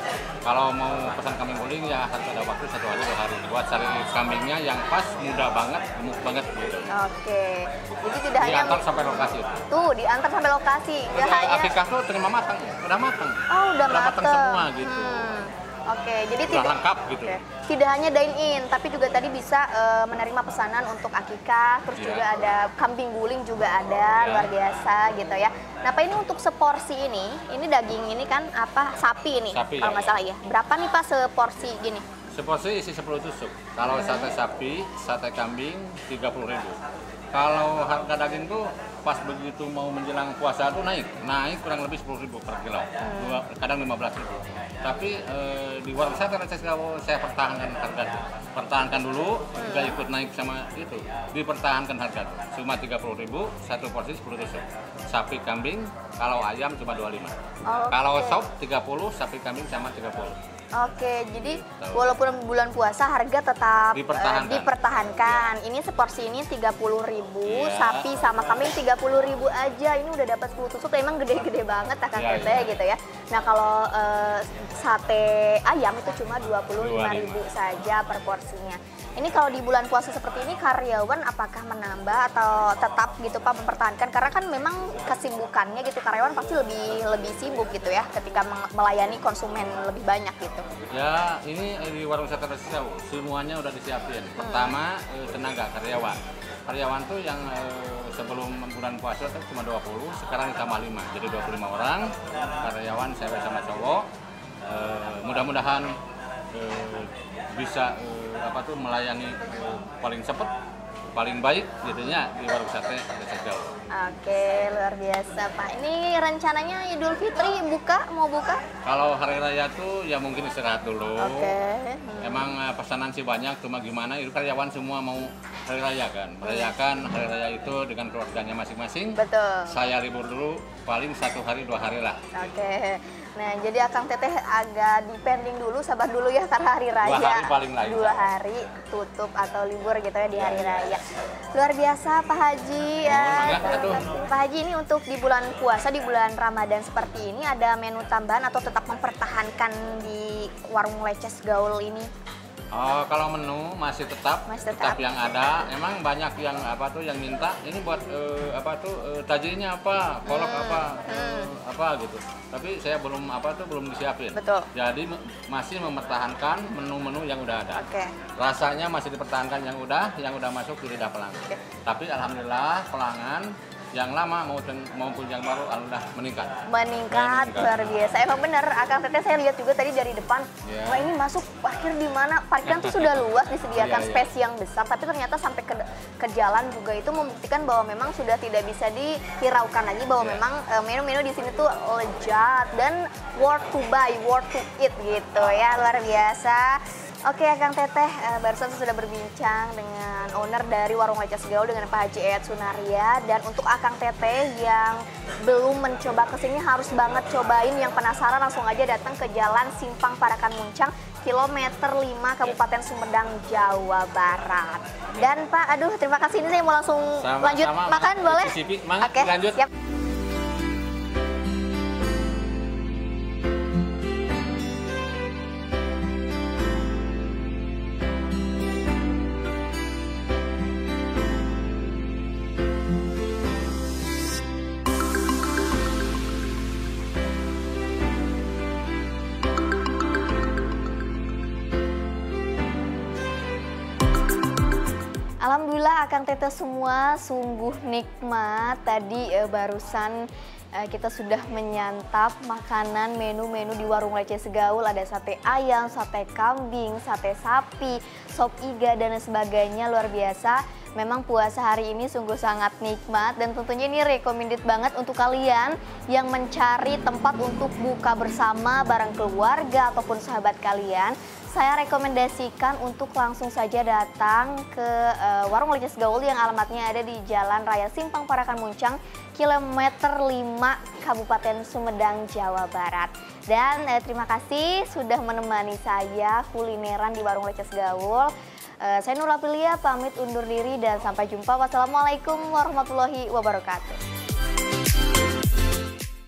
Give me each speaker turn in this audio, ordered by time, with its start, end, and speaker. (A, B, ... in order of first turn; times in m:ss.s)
0:00.4-0:06.9 A
0:06.9-0:11.7 B
0:08.4-0:09.6 A
0:11.1-0:15.3 A
0:13.5-0:32.0 B
0:16.5-0:17.4 A
0:22.0-0:22.2 A
0:24.2-0:24.5 A
0:29.5-0:30.2 A
0:32.3-0:36.8 A
0:33.8-0:34.3 B
0:37.3-0:57.4 A
0:43.0-0:43.4 B
0:49.6-0:50.0 B
0:57.7-0:58.4 B
0:57.9-1:00.4 A
1:00.8-1:30.6 B
1:01.3-1:02.2 A
1:03.9-1:05.5 A
1:07.5-1:08.0 A
1:12.1-1:12.8 A
1:16.8-1:17.4 A
1:30.9-1:44.1 A
1:34.4-1:34.8 B
1:44.6-1:45.9 A
1:46.5-1:50.5 A
1:51.1-1:53.7 A
1:53.9-1:58.6 B
1:58.8-2:01.5 A
2:01.2-2:02.5 B
2:02.2-2:12.2 A
2:06.4-2:06.7 B
2:09.2-2:09.8 B
2:12.4-2:21.0 B
2:17.0-2:18.2 A
2:20.4-2:20.9 A
2:21.6-2:32.1 B
2:23.0-2:24.2 A
2:32.7-2:47.9 A
2:34.5-2:35.0 B
2:40.3-2:41.5 B
2:44.4-2:44.7 B
2:47.8-2:48.1 B
2:48.4-2:56.6 A
2:56.7-3:39.7 B
2:57.1-2:57.9 A
3:00.6-3:01.1 A
3:02.6-3:04.3 A
3:10.2-3:10.4 A
3:15.4-3:15.7 A
3:37.2-3:39.7 A
4:05.4-4:10.2 B
4:10.8-4:54.0 B